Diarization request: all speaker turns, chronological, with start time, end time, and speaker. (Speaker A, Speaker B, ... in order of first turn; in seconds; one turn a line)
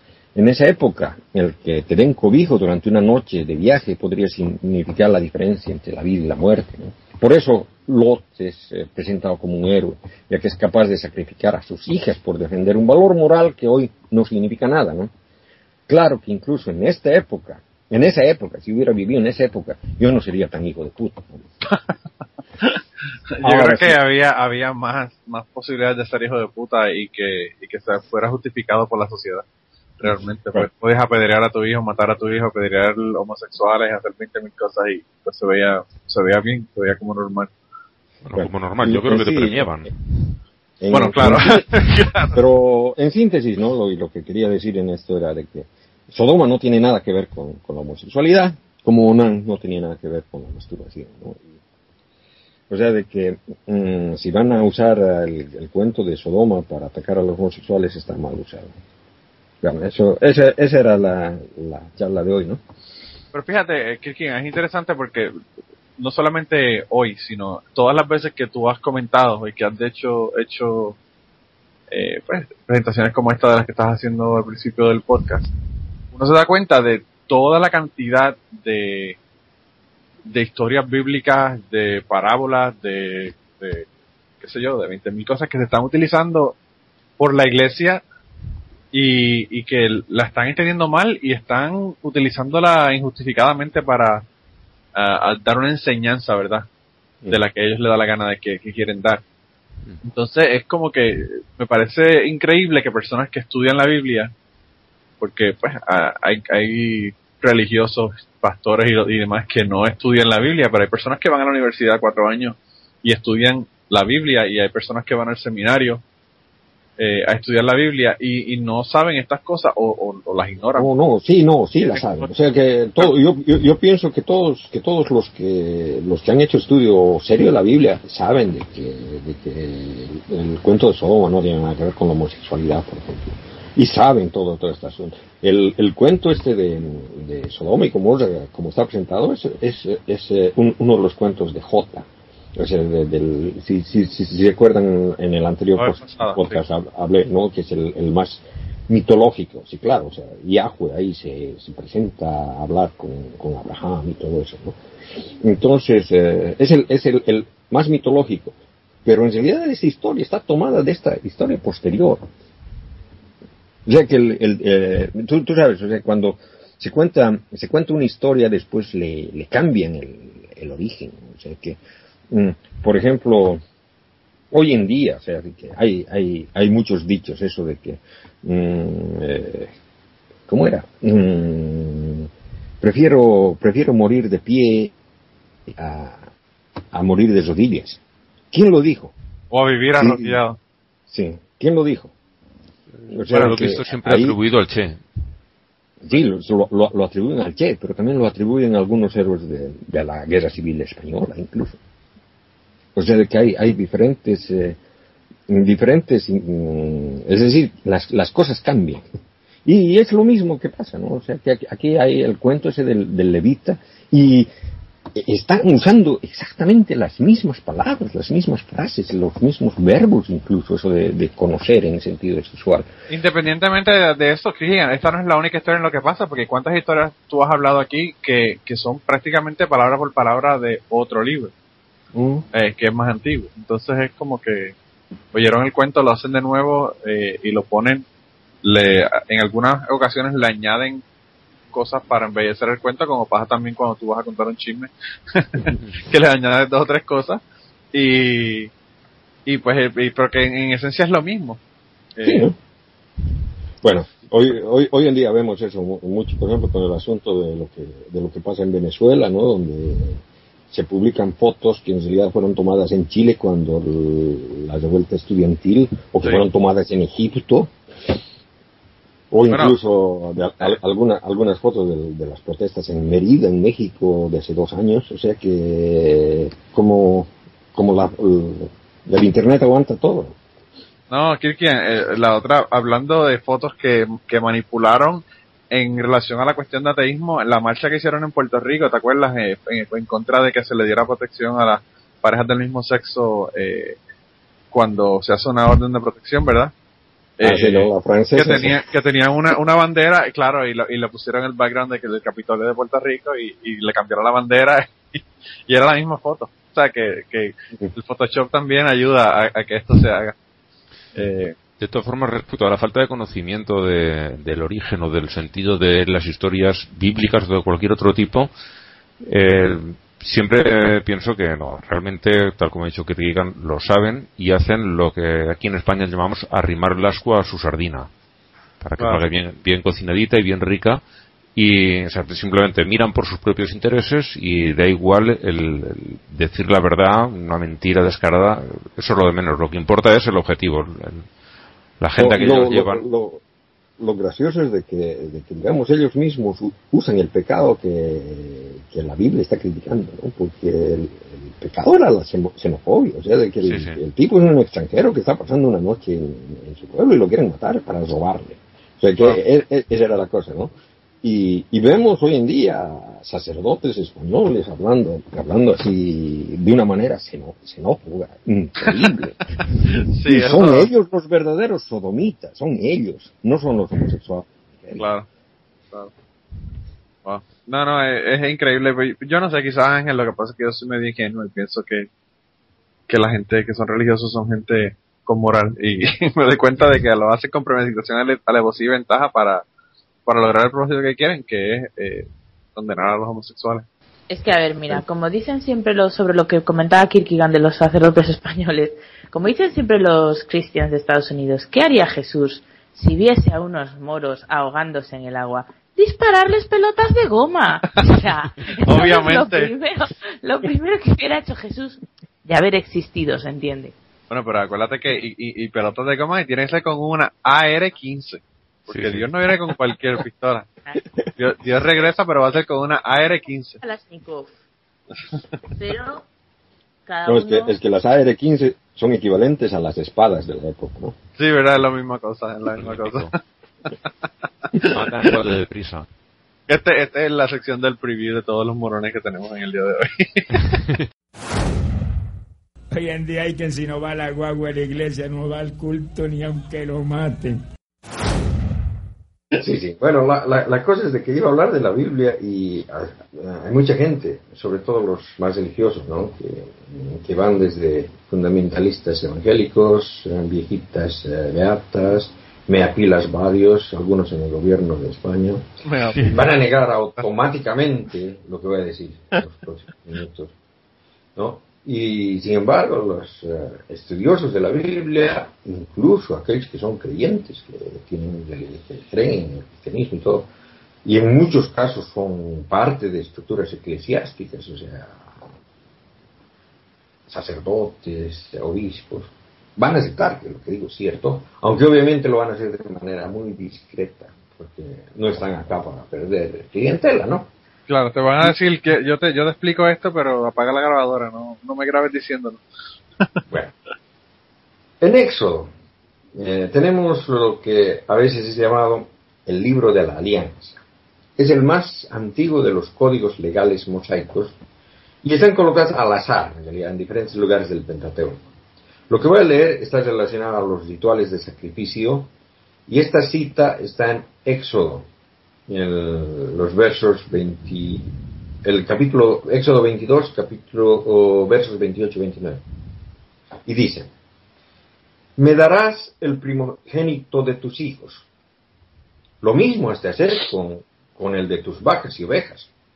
Speaker A: 0.3-15.1
Speaker A: 15.9-21.4
Speaker B: 23.4-29.4
Speaker A: 23.4-24.0
Speaker B: 30.0-37.5
Speaker C: 38.2-39.9
Speaker A: 38.4-39.9
Speaker A: 40.8-41.7
Speaker B: 40.9-42.4
Speaker A: 42.3-51.6
Speaker A: 52.7-58.8
Speaker A: 59.6-62.6
Speaker B: 63.3-65.3
Speaker B: 66.0-71.0
Speaker B: 71.9-75.5
Speaker B: 76.1-79.2
Speaker B: 80.3-83.9
Speaker B: 84.4-86.6
Speaker B: 87.2-88.0
Speaker B: 88.9-94.2
Speaker B: 95.0-96.7
Speaker B: 97.3-99.2
Speaker B: 100.0-104.3
Speaker B: 105.2-116.0
Speaker B: 117.0-120.9
Speaker A: 120.8-162.3
Speaker B: 122.0-122.3
Speaker B: 145.8-146.6
Speaker A: 163.9-171.8
Speaker A: 172.3-173.6
Speaker A: 174.5-179.7
Speaker A: 180.5-182.3
Speaker A: 182.8-184.9
Speaker A: 185.7-186.3
Speaker A: 186.9-188.0
Speaker A: 188.5-189.1
Speaker B: 189.5-190.6
Speaker A: 190.0-190.4
Speaker A: 191.1-192.1
Speaker A: 193.1-194.4
Speaker C: 193.3-195.0
Speaker A: 196.0-201.8
Speaker A: 202.9-204.8
Speaker A: 205.5-209.1
Speaker A: 209.7-214.5
Speaker A: 215.1-222.9
Speaker B: 223.1-231.5
Speaker A: 232.1-232.4
Speaker B: 232.5-234.8
Speaker B: 235.3-238.1
Speaker B: 238.6-241.0
Speaker B: 241.7-247.4
Speaker B: 247.9-248.7
Speaker B: 249.5-251.6
Speaker B: 252.2-252.5
Speaker A: 252.2-252.6
Speaker A: 253.8-267.7
Speaker A: 269.3-280.4
Speaker B: 281.1-294.0
Speaker B: 294.7-296.7
Speaker B: 297.4-310.3
Speaker A: 297.4-298.8
Speaker B: 311.1-311.6
Speaker C: 311.8-318.5
Speaker C: 319.2-328.1
Speaker C: 328.8-331.0
Speaker B: 329.0-329.3
Speaker C: 331.6-341.3
Speaker C: 342.0-343.0
Speaker A: 342.2-343.4
Speaker A: 344.0-369.4
Speaker C: 353.6-354.0
Speaker B: 369.9-370.9
Speaker A: 370.2-375.0
Speaker B: 375.0-375.3
Speaker B: 377.2-382.1
Speaker B: 383.1-389.6
Speaker B: 390.3-393.9
Speaker D: 394.3-414.0
Speaker B: 408.9-409.7
Speaker B: 414.3-420.7
Speaker C: 418.9-419.3
Speaker B: 421.4-423.8
Speaker D: 423.8-424.5
Speaker D: 425.7-426.2
Speaker D: 427.1-427.8
Speaker A: 427.2-431.2
Speaker B: 431.4-433.4
Speaker C: 432.8-433.3
Speaker C: 434.8-436.1
Speaker B: 436.7-440.8
Speaker E: 442.9-447.6
Speaker A: 449.6-465.6
Speaker B: 465.9-466.4
Speaker A: 466.2-470.6
Speaker A: 471.4-480.5
Speaker A: 481.1-485.4
Speaker A: 487.3-497.5
Speaker B: 497.9-502.6
Speaker A: 503.5-503.7
Speaker A: 505.0-505.7
Speaker A: 506.4-510.8
Speaker A: 511.4-514.6
Speaker A: 515.2-518.5
Speaker A: 519.1-522.3
Speaker A: 522.9-525.1
Speaker A: 525.7-528.1
Speaker A: 528.6-532.6
Speaker A: 533.7-534.1
Speaker A: 535.4-538.3
Speaker A: 539.4-542.7